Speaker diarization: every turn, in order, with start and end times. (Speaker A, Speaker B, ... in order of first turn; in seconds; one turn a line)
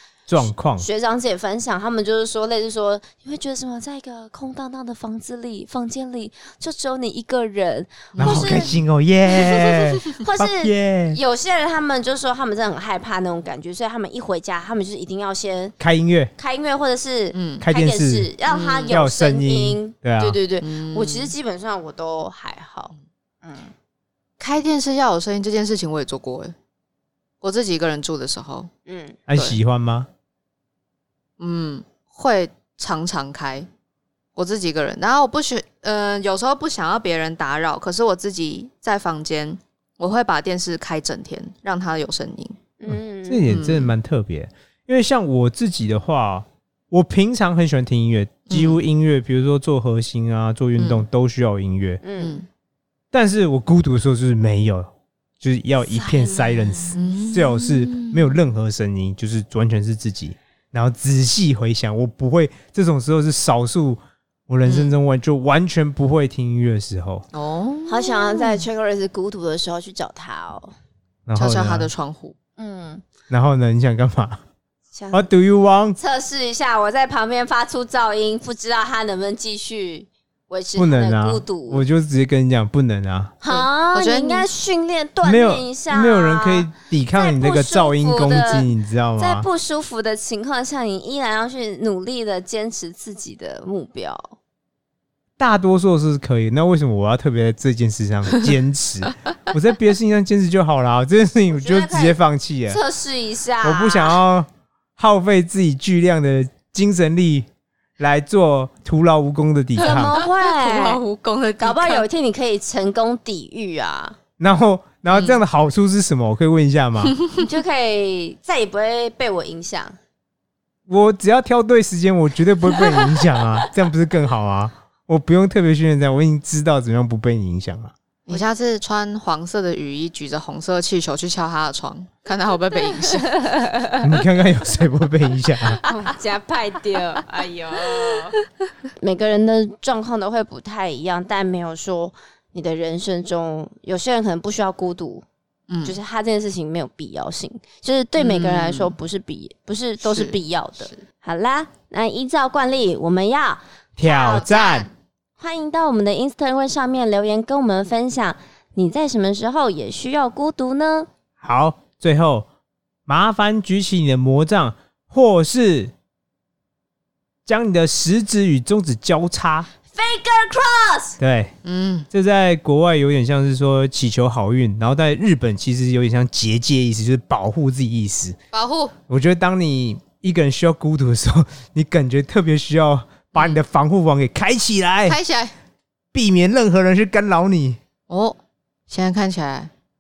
Speaker A: 0.3-0.9
Speaker B: 0.8-8.7
Speaker C: 8.1-8.8
Speaker A: 8.2-11.2
Speaker B: 9.3-15.8
Speaker C: 9.4-10.1
Speaker A: 15.8-16.3
Speaker B: 16.4-23.7
Speaker C: 17.3-17.6
Speaker A: 17.6-18.3
Speaker C: 18.5-18.9
Speaker A: 18.9-20.4
Speaker C: 20.6-21.3
Speaker C: 24.4-26.5
Speaker C: 27.4-28.7
Speaker B: 28.9-29.2
Speaker A: 29.3-30.1
Speaker C: 31.4-33.7
Speaker C: 34.4-42.6
Speaker B: 42.8-43.5
Speaker A: 42.9-52.0
Speaker C: 43.5-43.9
Speaker C: 48.5-48.8
Speaker C: 50.8-51.0
Speaker B: 52.0-52.4
Speaker C: 52.2-52.5
Speaker A: 53.1-67.3
Speaker B: 56.0-56.7
Speaker C: 56.9-58.3
Speaker C: 64.7-64.9
Speaker C: 67.3-68.6
Speaker B: 67.9-70.7
Speaker A: 71.3-71.9
Speaker C: 71.3-72.3
Speaker B: 72.6-73.0
Speaker A: 73.3-74.4
Speaker B: 75.0-75.3
Speaker A: 75.1-76.0
Speaker B: 76.0-81.8
Speaker A: 80.8-83.4
Speaker B: 83.4-94.3
Speaker C: 83.5-84.5
Speaker A: 85.2-89.5
Speaker A: 95.4-102.8
Speaker B: 101.5-104.2
Speaker A: 103.6-107.5
Speaker A: 108.0-110.2
Speaker C: 109.8-112.1
Speaker B: 109.8-111.0
Speaker B: 111.6-114.2
Speaker A: 114.4-117.2
Speaker C: 115.1-115.4
Speaker C: 117.1-117.4
Speaker B: 117.3-120.0
Speaker A: 120.9-127.9
Speaker C: 128.3-133.6
Speaker B: 133.1-134.0
Speaker A: 134.0-135.8
Speaker B: 135.7-138.4
Speaker C: 137.9-138.2
Speaker B: 139.0-145.2
Speaker C: 145.7-146.0
Speaker B: 145.8-154.9
Speaker C: 148.2-148.9
Speaker C: 150.0-151.0
Speaker A: 154.0-154.9
Speaker C: 154.1-154.7
Speaker B: 155.4-161.1
Speaker A: 161.4-162.5
Speaker A: 163.1-165.9
Speaker A: 167.5-169.7
Speaker B: 169.9-171.2
Speaker A: 171.2-171.6
Speaker C: 171.6-172.1
Speaker A: 172.1-178.4
Speaker C: 178.5-178.9
Speaker A: 179.1-185.2
Speaker C: 185.1-185.5
Speaker A: 186.1-187.8
Speaker C: 188.1-188.4
Speaker C: 188.9-189.7